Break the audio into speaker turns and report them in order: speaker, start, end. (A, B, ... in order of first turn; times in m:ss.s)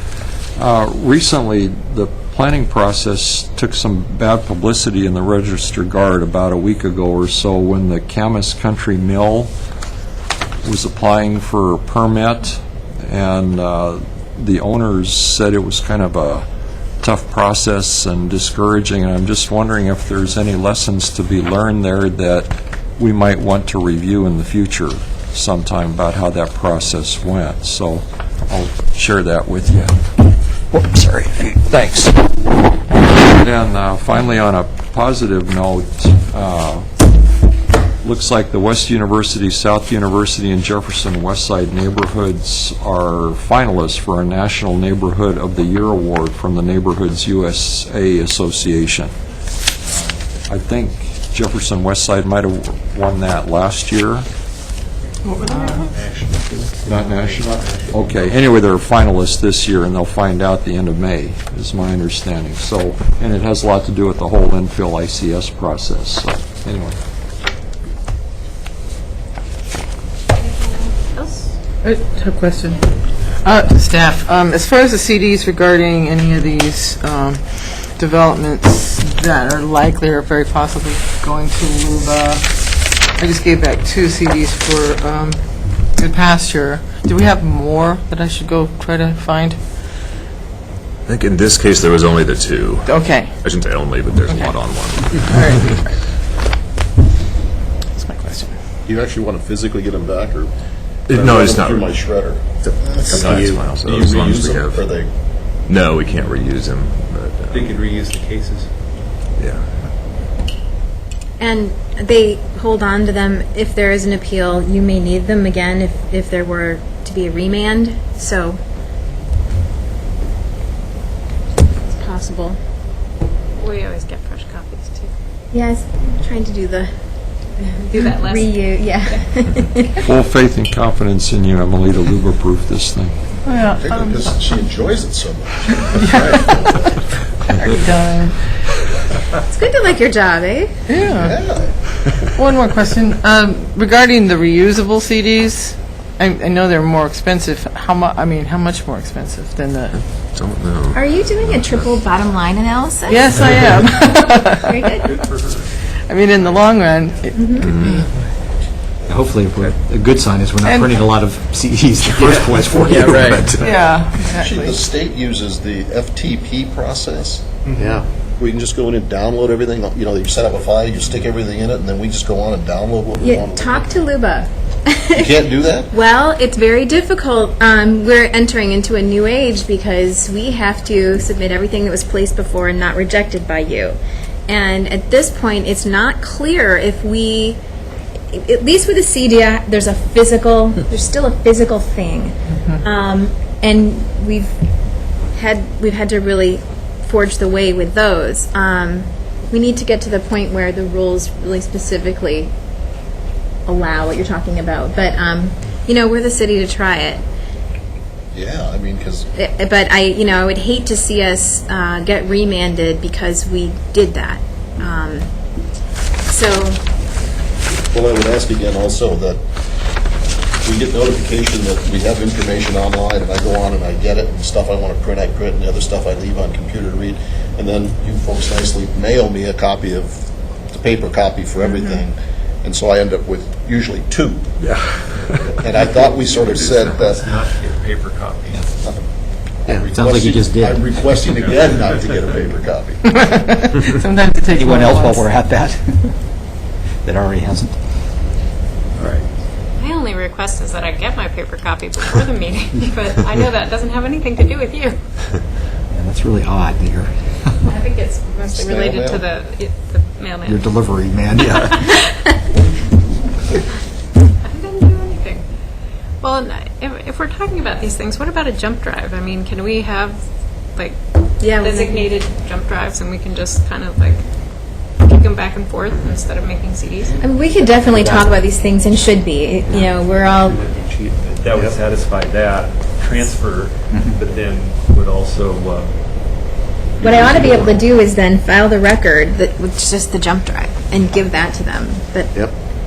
0:00.6-0:09.5 A
0:10.6-0:16.4 A
0:17.0-0:30.0 A
0:30.7-0:32.2 A
0:33.3-0:36.9 A
0:38.0-0:49.1 A
0:50.5-0:54.2 A
0:55.2-0:55.9 B
0:55.4-0:58.2 C
0:56.8-1:07.0 A
1:10.4-1:11.5 D
1:11.8-1:12.8 B
1:13.4-1:29.6 B
1:31.1-1:35.9 E
1:32.8-1:33.3 B
1:35.1-1:35.9 B
1:37.9-1:38.5 B
1:38.8-1:40.5 F
1:41.1-1:41.9 E
1:41.1-1:45.1 F
1:42.6-1:44.8 E
1:45.6-1:47.8 E
1:47.5-1:48.7 C
1:51.4-1:58.6 G
2:01.8-2:02.6 G
2:03.6-2:05.1 D
2:05.5-2:06.9 G
2:07.8-2:08.6 D
2:08.0-2:10.1 G
2:10.0-2:13.1 A
2:13.4-2:14.2 B
2:13.6-2:17.1 F
2:16.0-2:16.8 B
2:17.5-2:18.4 B
2:19.5-2:20.7 G
2:20.9-2:21.4 B
2:21.0-2:21.8 F
2:22.4-2:30.1 B
2:30.0-2:32.0 E
2:30.9-2:33.4 G
2:33.1-2:35.3 B
2:34.6-2:35.2 G
2:35.2-2:35.6 C
2:36.1-2:38.1 B
2:36.4-2:37.0 C
2:37.4-2:37.9 G
2:37.6-2:38.0 E
2:39.1-2:43.7 H
2:40.6-2:41.0 B
2:42.2-2:43.4 C
2:43.6-2:44.8 B
2:44.3-2:53.8 F
2:47.6-2:47.9 C
2:53.2-3:07.6 G
2:55.1-2:55.9 F
3:08.3-3:14.6 G
3:15.3-3:22.5 G
3:23.7-3:27.2 G
3:28.3-3:29.3 F
3:29.3-3:35.3 G
3:36.3-3:36.8 G
3:37.9-3:39.4 F
3:40.6-3:54.5 F
3:51.6-3:52.0 G
3:55.6-3:57.4 F
3:55.7-3:58.6 C
3:59.6-4:03.0 F
3:59.7-4:01.5 H
4:03.1-4:05.3 B
4:04.5-4:06.1 H
4:07.0-4:07.8 H
4:09.8-4:15.0 D
4:15.9-4:17.6 H
4:17.6-4:20.7 D
4:18.4-4:19.2 F
4:20.4-4:21.9 H
4:22.6-4:23.0 F
4:24.4-4:25.4 D
4:26.2-4:30.2 D
4:31.4-4:32.1 G
4:31.6-4:34.2 D
4:35.0-4:37.2 D
4:37.2-4:40.6 G
4:37.9-4:38.4 H
4:40.4-4:45.9 C
4:43.9-4:44.2 H
4:47.0-4:47.8 C
4:47.0-4:52.4 G